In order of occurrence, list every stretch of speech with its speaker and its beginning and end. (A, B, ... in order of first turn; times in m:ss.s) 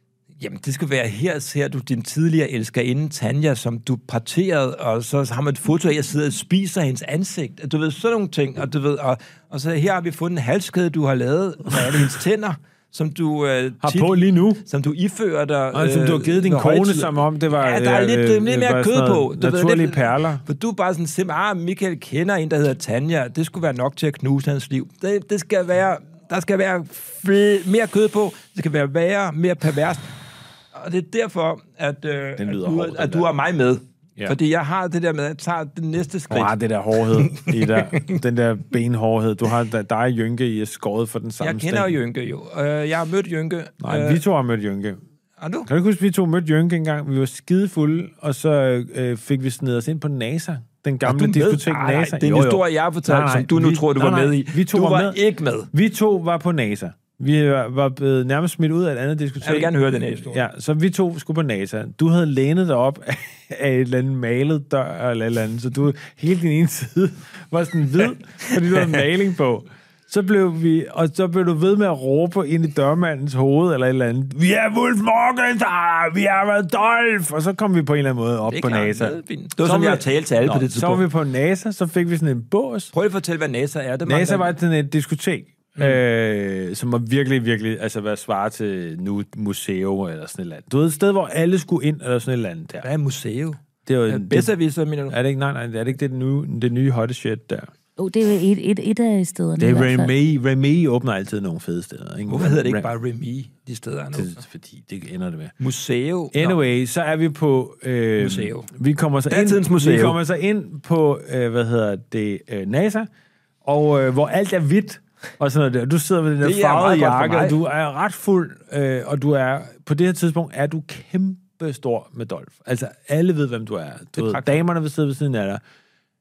0:00.4-0:30.1 A
0:13.8-0:14.6 B
0:15.7-0:20.4 B
0:30.7-0:36.6 A
0:32.4-0:33.3 B
0:36.3-0:42.0 B
0:37.1-0:38.2 A
0:41.4-0:44.2 A
0:43.8-0:45.0 B
0:45.4-0:45.7 A
0:45.7-0:55.2 B
0:51.0-0:55.7 A
0:55.7-1:22.9 B
0:59.4-1:00.4 A
1:18.5-1:21.0 A
1:22.9-1:24.6 A
1:24.1-1:32.9 B
1:32.8-1:35.2 A
1:33.9-1:34.5 B
1:35.1-1:37.7 B
1:38.0-1:40.1 C
1:39.6-1:42.9 B
1:42.3-1:44.4 A
1:44.1-1:45.5 B
1:45.6-1:46.6 A
1:46.3-1:53.1 B
1:48.2-1:48.7 A
1:49.3-1:50.2 A
1:53.6-2:05.6 B
1:56.4-1:57.6 A
2:04.2-2:04.6 A